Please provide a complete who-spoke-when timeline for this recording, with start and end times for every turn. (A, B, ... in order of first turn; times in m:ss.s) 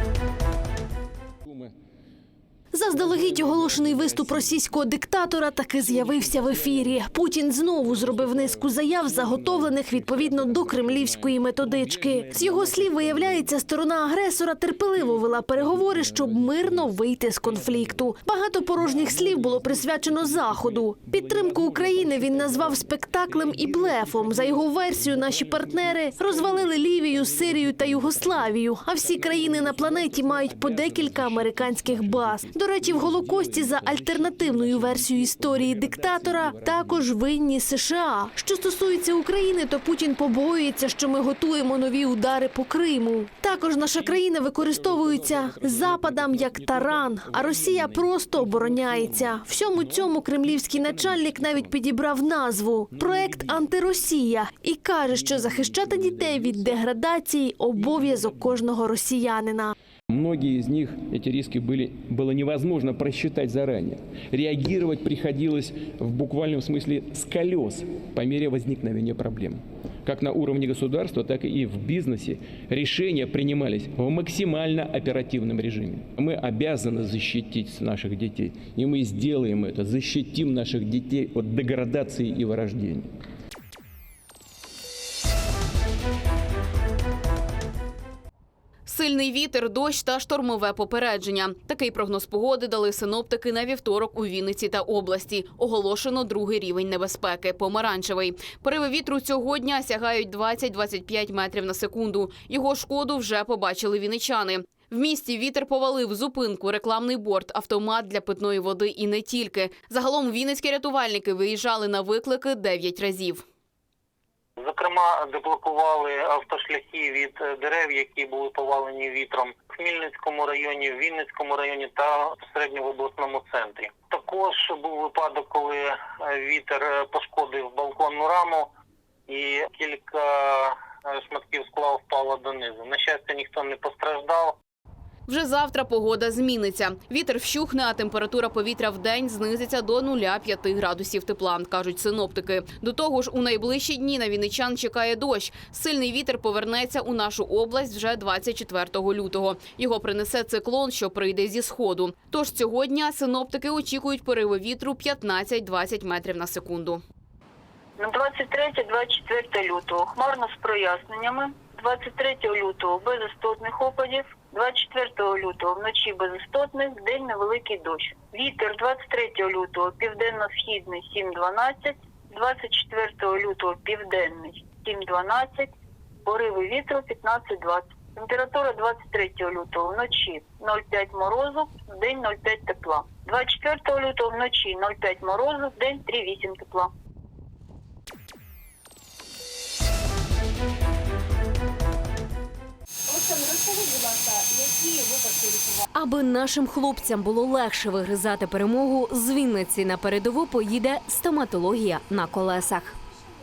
0:02.7-0:59.7 A
1:00.1-1:23.0 B
1:29.0-1:53.0 C
1:52.1-1:53.4 D
1:54.6-2:08.7 E
2:09.3-2:14.6 E
2:15.5-2:37.0 C
2:38.0-2:55.7 F
2:56.2-3:06.9 F
3:15.9-3:23.0 D